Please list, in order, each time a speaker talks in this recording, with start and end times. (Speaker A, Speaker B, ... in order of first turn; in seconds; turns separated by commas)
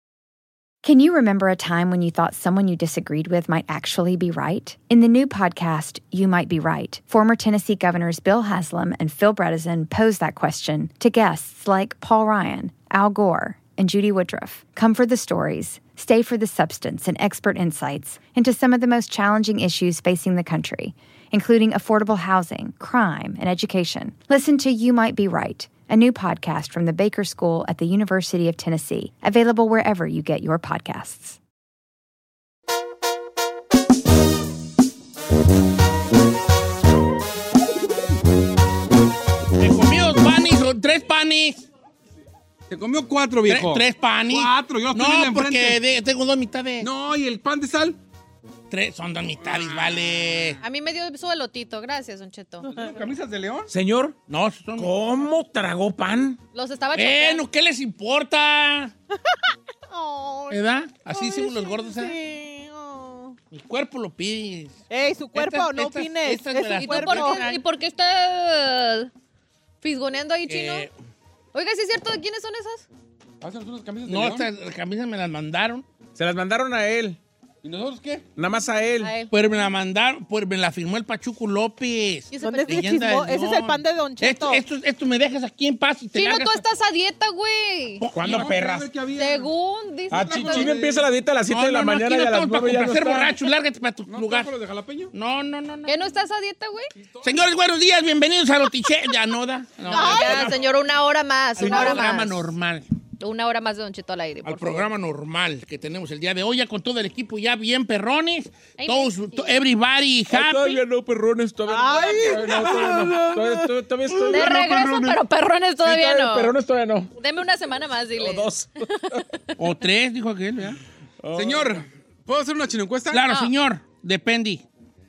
Speaker A: 0.8-31.4, Speaker B: 39.6-41.6, Speaker C: 42.7-45.8, Speaker B: 43.5-46.9, Speaker C: 46.8-48.0, Speaker B: 48.7-50.6, Speaker C: 49.4-50.5, Speaker D: 50.6-52.7, Speaker C: 52.6-53.7, Speaker E: 53.7-54.2, Speaker B: 54.3-54.9, Speaker E: 54.8-56.4, Speaker D: 56.5-57.4, Speaker B: 56.9-58.9, Speaker F: 59.9-63.4, Speaker B: 60.5-62.1, Speaker B: 63.5-64.8, Speaker F: 64.9-67.5, Speaker B: 65.3-67.6, Speaker D: 66.7-69.1, Speaker D: 69.8-70.9, Speaker B: 70.5-70.9, Speaker D: 71.5-72.8, Speaker C: 73.4-74.5, Speaker B: 74.0-75.8, Speaker E: 76.2-77.2, Speaker C: 77.6-78.2, Speaker E: 78.3-79.1, Speaker D: 79.0-79.3, Speaker B: 79.3-86.6, Speaker D: 82.3-82.9, Speaker F: 82.4-84.6, Speaker D: 86.1-88.1, Speaker B: 88.0-88.5, Speaker E: 88.1-88.9, Speaker C: 88.2-89.5, Speaker D: 89.1-90.8, Speaker E: 90.1-93.4, Speaker C: 90.1-91.1, Speaker B: 91.5-94.5, Speaker C: 94.1-95.1, Speaker B: 95.1-96.1, Speaker D: 95.8-96.9, Speaker C: 97.0-97.3, Speaker B: 97.2-100.6, Speaker D: 99.9-102.4, Speaker F: 99.9-100.5, Speaker B: 101.5-102.8, Speaker F: 101.6-102.0, Speaker D: 103.2-104.9, Speaker B: 104.4-110.8, Speaker D: 108.8-109.5, Speaker E: 110.3-115.2, Speaker F: 111.7-113.7, Speaker C: 112.9-113.1, Speaker D: 114.3-116.5, Speaker E: 115.8-117.1, Speaker D: 117.2-119.6, Speaker E: 118.2-119.2, Speaker B: 119.6-120.8, Speaker E: 121.2-121.8, Speaker C: 121.3-123.2, Speaker B: 123.1-124.6